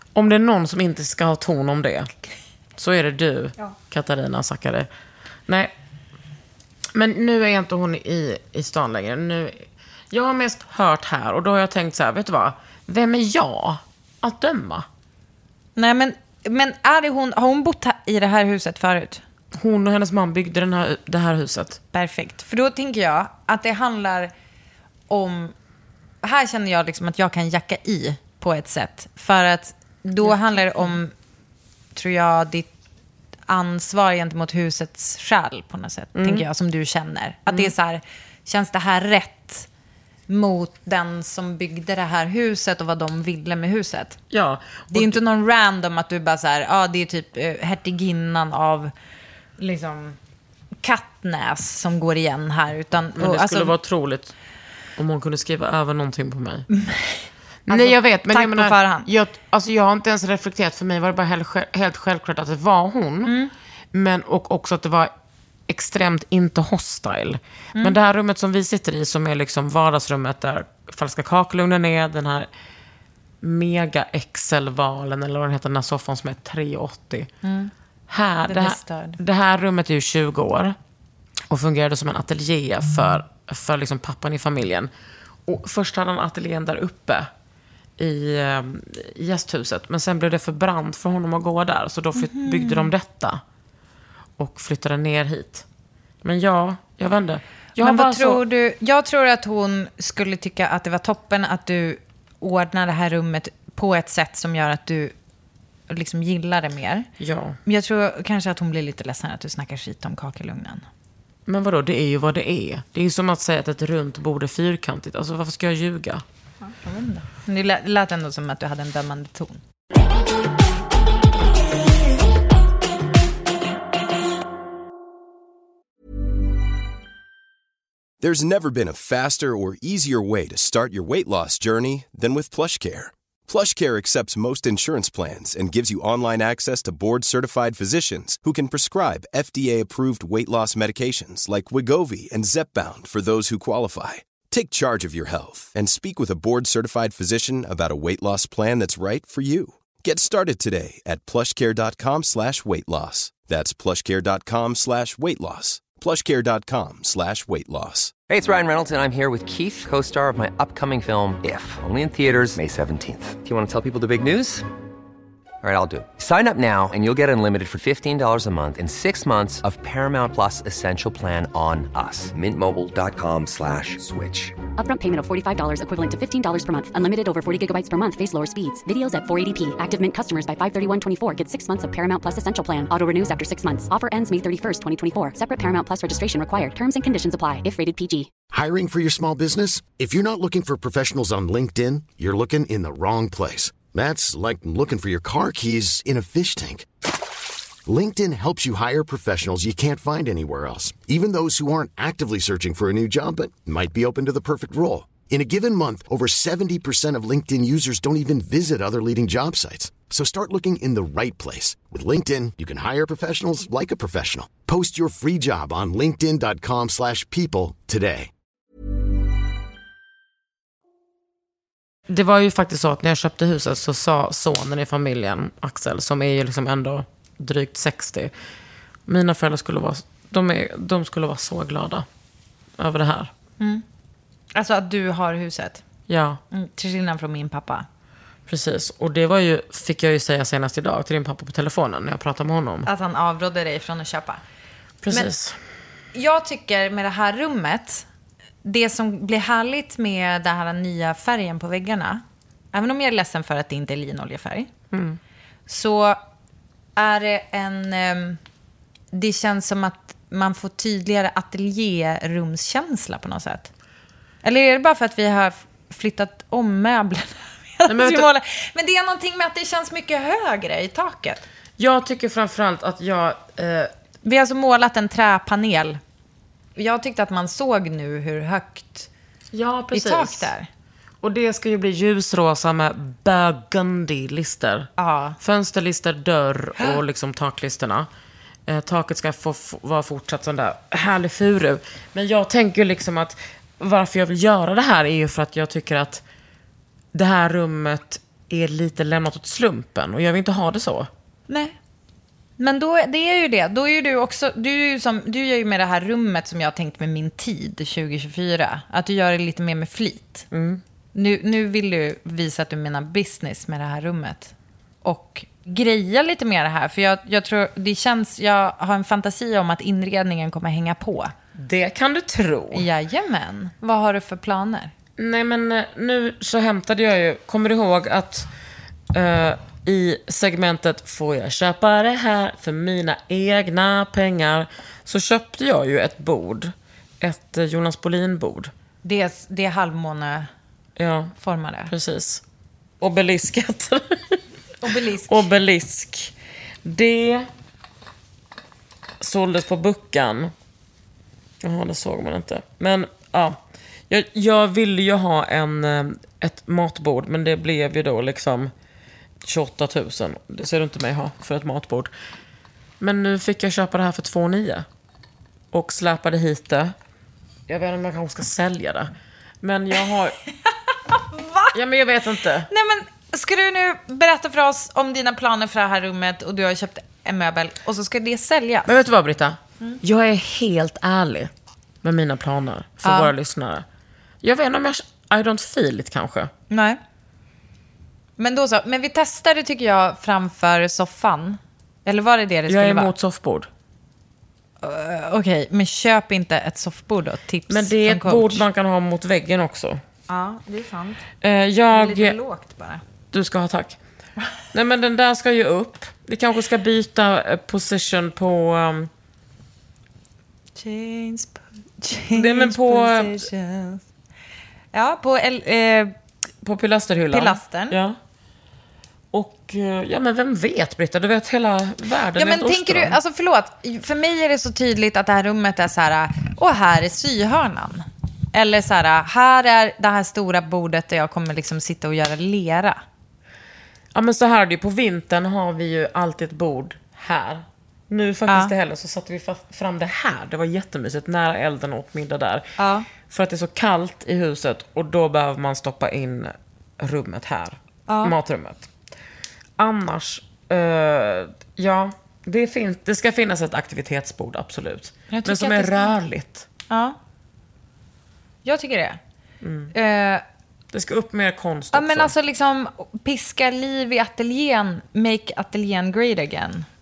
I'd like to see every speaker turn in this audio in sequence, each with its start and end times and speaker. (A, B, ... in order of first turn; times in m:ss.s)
0:00.1-0:02.1 A
0:02.8-0:04.9 A
0:05.5-0:05.7 A
0:06.9-0:14.9 A
0:15.8-0:19.2 B
0:19.5-0:21.8 A
0:21.9-0:24.3 B
0:25.1-0:25.5 B
0:26.2-0:31.1 B
0:31.9-0:32.7 B
0:33.5-0:39.7 B
0:36.1-0:36.4 A
0:40.3-0:44.2 B
0:44.3-0:45.2 A
0:44.9-0:48.9 B
0:49.6-0:50.2 B
0:50.8-0:53.7 B
0:53.2-0:54.3 A
0:55.0-0:56.7 A
0:56.7-0:59.1 B
0:57.7-1:03.3 A
1:03.2-1:03.5 B
1:03.9-1:05.1 A
1:05.7-1:12.5 A
1:13.4-1:17.3 A
1:17.4-1:17.7 B
1:18.1-1:20.8 A
1:18.5-1:19.2 B
1:21.5-1:24.9 A
1:25.4-1:27.3 A
1:28.0-1:33.4 A
1:32.2-1:32.9 B
1:34.4-1:35.6 A
1:36.2-1:38.4 A
1:37.8-1:45.1 B
1:45.9-1:47.1 B
1:47.2-1:47.6 A
1:47.6-1:50.8 B
1:51.4-1:56.2 A
1:56.6-1:59.6 B
2:08.2-2:38.1 C
2:38.3-2:44.6 D
2:45.6-2:54.6 D
2:54.7-3:08.3 E
3:08.5-3:16.8 F
3:17.8-3:38.3 F
3:42.1-3:48.3 A
3:49.0-3:52.1 A
3:52.8-3:53.3 A
3:53.6-3:53.8 B
3:54.5-3:55.8 B
3:56.1-3:56.4 A
3:56.5-3:57.8 B
3:58.5-4:02.9 A
4:02.8-4:04.4 B
4:05.0-4:05.6 A
4:06.1-4:08.0 B
4:08.6-4:14.7 B
4:14.9-4:15.2 A
4:15.7-4:16.2 B
4:17.0-4:18.4 B
4:19.1-4:23.7 B
4:24.4-4:31.4 B
4:27.8-4:28.3 A
4:31.8-4:33.9 A
4:34.2-4:36.0 B
4:36.8-4:39.1 B
4:39.5-4:40.5 A
4:39.9-4:40.7 B
4:41.2-4:48.1 A
4:45.0-4:45.4 B
4:48.6-4:56.2 A
4:57.1-5:01.1 A
5:01.5-5:01.7 B
5:02.6-5:10.5 B
5:10.5-5:10.8 A
5:11.1-5:14.5 B
5:15.0-5:21.3 B
5:21.5-5:22.9 A
5:22.7-5:24.9 B
5:25.2-5:28.5 A
5:29.1-5:38.7 A
5:39.0-5:40.5 B
5:41.0-5:41.3 A
5:41.4-5:41.9 B
5:41.9-5:42.4 A
5:43.0-5:44.4 A
5:44.8-5:45.5 B
5:45.2-5:47.5 A
5:49.2-5:50.5 A
5:51.6-5:58.7 A
5:59.4-6:02.1 A
6:03.0-6:04.9 A
6:05.7-6:06.9 A
6:07.7-6:10.4 A
6:11.1-6:11.8 B
6:11.7-6:12.7 A
6:12.7-6:18.9 B
6:18.8-6:21.5 A
6:22.0-6:23.8 A
6:23.0-6:23.3 B
6:24.4-6:26.5 A
6:26.7-6:27.0 B
6:28.4-6:33.1 B
6:32.7-6:33.7 A
6:34.8-6:38.6 B
6:37.7-6:40.0 A
6:40.3-6:41.2 B
6:41.4-6:42.4 A
6:41.9-6:43.0 B
6:43.3-6:44.0 A
6:44.7-6:49.1 A
6:50.8-6:54.0 B
6:52.3-6:53.5 A
6:54.9-6:56.1 B
6:56.6-6:58.2 A
6:57.3-6:58.0 B
6:59.3-7:03.2 A
7:02.4-7:13.0 B
7:14.1-7:22.7 A
7:18.5-7:18.7 B
7:22.8-7:23.1 B
7:23.2-7:28.9 A
7:28.1-7:28.3 B
7:29.8-7:36.6 A
7:35.3-7:36.1 B
7:36.9-7:37.2 B
7:38.6-7:39.2 B
7:39.6-7:39.9 A
7:39.9-7:40.4 B
7:40.9-7:42.3 A
7:41.9-7:46.9 B